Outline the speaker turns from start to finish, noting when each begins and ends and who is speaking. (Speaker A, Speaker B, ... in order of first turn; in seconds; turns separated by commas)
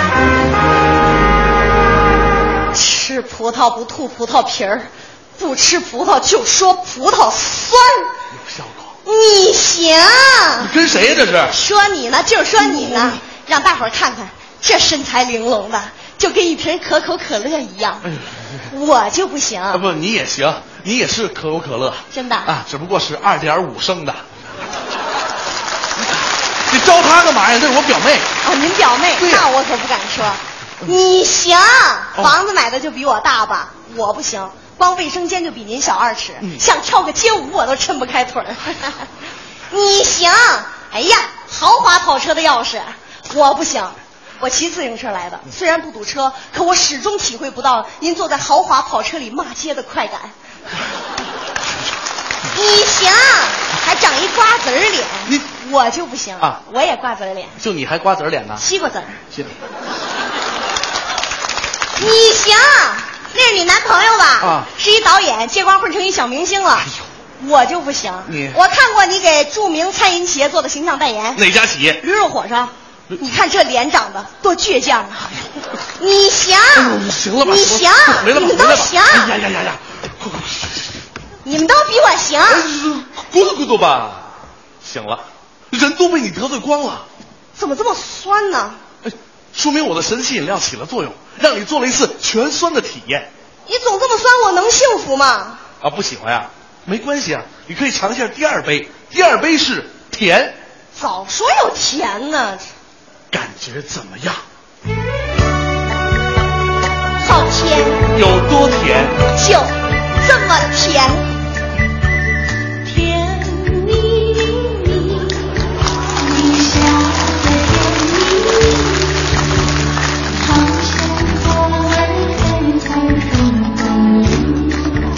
Speaker A: 2.7-8.1, Speaker B: 8.3-9.0, Speaker A: 9.1-10.7, Speaker B: 10.6-11.6, Speaker A: 11.5-18.1, Speaker B: 12.7-13.1, Speaker B: 18.1-18.7, Speaker A: 18.7-19.8, Speaker B: 19.7-24.2, Speaker A: 22.1-22.5, Speaker B: 26.7-28.3, Speaker A: 28.4-39.1, Speaker B: 29.2-29.5, Speaker A: 39.7-50.3, Speaker A: 52.5-57.6, Speaker B: 57.6-58.7, Speaker A: 58.6-59.2, Speaker A: 62.0-71.4, Speaker B: 64.4-64.7, Speaker B: 68.3-68.6, Speaker B: 71.3-72.0, Speaker A: 72.0-75.3, Speaker A: 76.0-76.9, Speaker B: 76.7-81.0, Speaker A: 77.4-79.3, Speaker A: 81.4-82.7, Speaker B: 82.5-84.3, Speaker B: 84.8-87.1, Speaker A: 87.6-88.8, Speaker B: 89.0-93.3, Speaker A: 93.7-95.6, Speaker B: 95.8-100.6, Speaker A: 101.0-102.7, Speaker B: 103.3-104.4, Speaker A: 107.2-108.0, Speaker B: 108.1-109.2, Speaker A: 109.3-111.3, Speaker A: 112.8-115.6, Speaker A: 116.2-119.0, Speaker A: 120.4-124.9